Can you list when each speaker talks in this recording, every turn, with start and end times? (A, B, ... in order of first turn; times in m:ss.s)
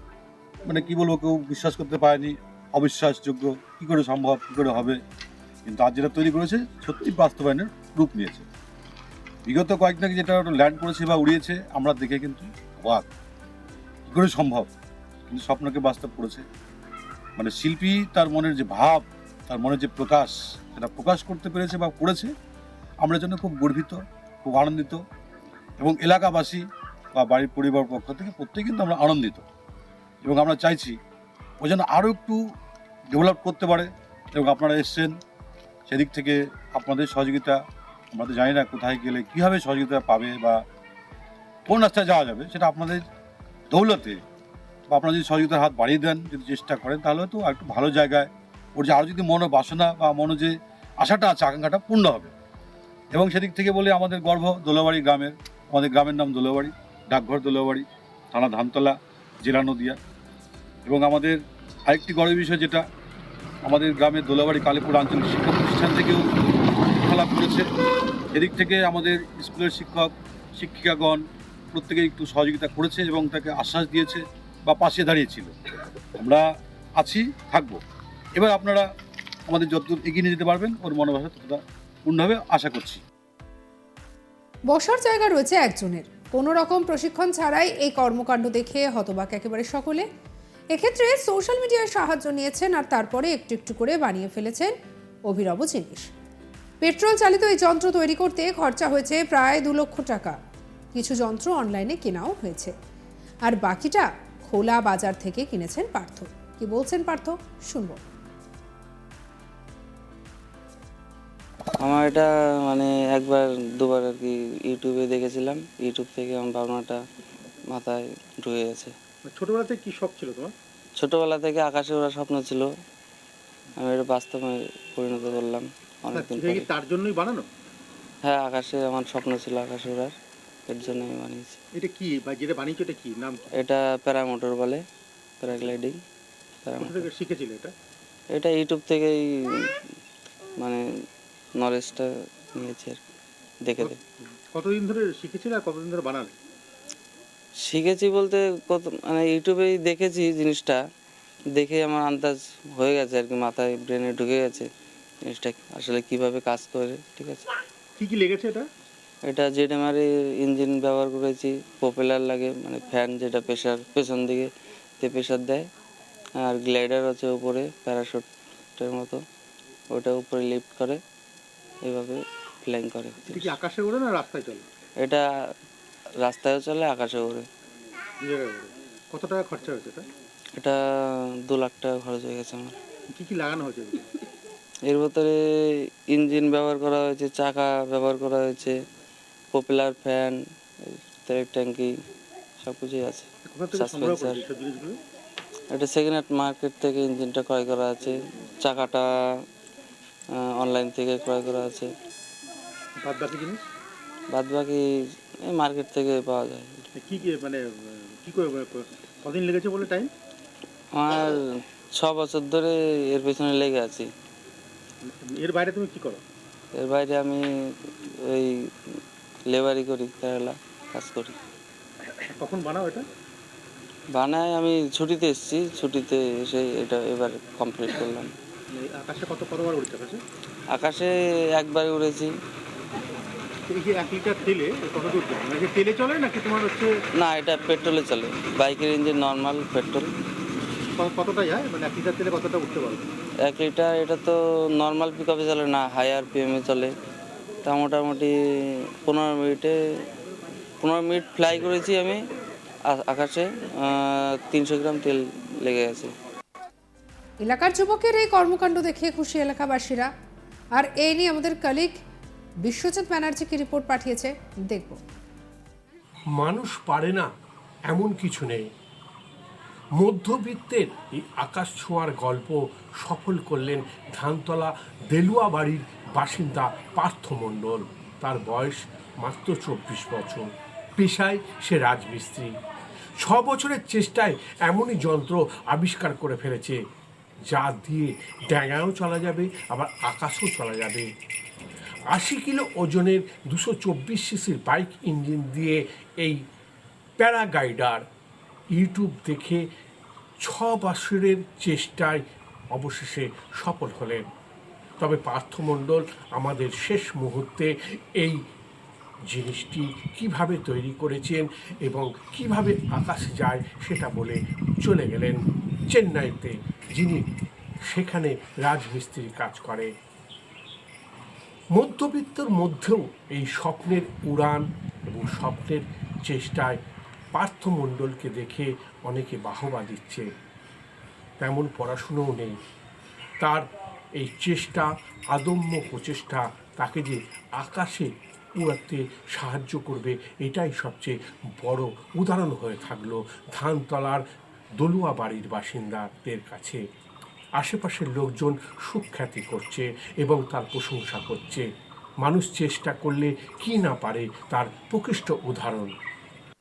0:00.6-0:05.0 A
0:05.6-0:08.4 A
0:09.4-0:13.1 A
0:14.1-0:14.7 A
0:15.3-0:16.4 A
0:17.4-0:22.3 A
0:23.0-0:25.0 A
0:25.8-0:26.6 A
0:27.1-0:29.4 A
0:30.2-0:31.0 A
0:31.6-0:32.4 A
0:33.1-0:35.1 A
0:35.9-0:37.6 A
0:38.1-0:40.6 A
0:41.7-0:43.0 A
0:43.7-0:44.2 A
0:44.9-0:52.3 A
0:53.1-1:00.0 A
1:00.8-1:02.8 A
1:03.6-1:06.3 A
1:06.9-1:07.7 A
1:08.3-1:11.2 A
1:11.7-1:15.5 A
1:16.2-1:16.4 A
1:17.0-1:17.8 A
1:18.4-1:18.9 A
1:19.5-1:23.0 A
1:24.7-1:30.1 B
1:30.7-1:34.7 B
1:35.3-1:36.1 B
1:36.8-1:40.4 B
1:40.9-1:42.7 B
1:43.4-1:48.0 B
1:51.8-1:57.0 C
1:57.7-1:58.9 C
1:59.2-2:00.5 D
2:01.0-2:02.7 C
2:03.8-2:06.7 C
2:06.1-2:07.5 D
2:08.2-2:10.1 C
2:10.7-2:11.6 C
2:11.7-2:13.5 D
2:13.6-2:14.8 C
2:15.4-2:16.0 C
2:16.6-2:17.0 C
2:16.8-2:17.7 D
2:18.3-2:19.7 C
2:21.6-2:23.0 C
2:23.6-2:24.0 C
2:23.8-2:26.4 D
2:27.6-2:30.8 C
2:31.6-2:34.7 C
2:35.3-2:37.5 C
2:38.0-2:38.7 D
2:39.3-2:44.5 C
2:45.0-2:45.6 C
2:46.4-2:49.2 C
2:49.9-2:51.0 C
2:51.8-2:53.5 C
2:53.2-2:54.6 D
2:56.2-2:57.5 C
2:58.2-3:00.1 D
3:00.6-3:02.8 C
3:03.1-3:04.1 D
3:04.9-3:05.4 C
3:06.1-3:08.8 C
3:09.5-3:11.9 C
3:12.6-3:14.4 C
3:13.4-3:15.0 D
3:15.7-3:19.1 C
3:20.4-3:21.9 C
3:23.0-3:23.6 D
3:24.3-3:24.8 C
3:25.4-3:26.8 C
3:27.0-3:30.1 D
3:30.9-3:31.4 C
3:32.0-3:34.1 C
3:35.0-3:36.2 D
3:36.7-3:37.4 C
3:38.2-3:38.6 C
3:39.5-3:41.4 C
3:42.1-3:43.0 D
3:44.1-3:48.3 C
3:48.7-3:50.2 D
3:50.7-3:52.3 C
3:53.7-3:56.9 D
3:57.2-4:00.1 C
4:01.0-4:03.1 D
4:03.4-4:06.9 C
4:07.6-4:08.3 C
4:09.0-4:09.7 C
4:10.8-4:12.2 C
4:12.9-4:16.1 C
4:17.4-4:20.1 B
4:20.8-4:21.9 B
4:22.6-4:25.0 B
4:26.4-4:27.3 E
4:27.9-4:28.6 E
4:30.0-4:42.5 E
4:43.2-4:46.8 E
4:47.5-4:51.0 E
4:52.1-4:56.4 E
4:57.2-4:58.0 E
4:58.7-4:59.6 E
5:00.4-5:02.2 E
5:02.7-5:04.2 E
5:05.0-5:08.4 E
5:09.3-5:15.4 E
5:15.9-5:17.2 E
5:17.9-5:19.9 E
5:21.7-5:26.8 E
5:27.3-5:30.3 E
5:31.4-5:32.5 E
5:34.2-5:44.2 E
5:44.8-5:46.8 E
5:47.6-5:51.6 E
5:52.2-5:55.9 E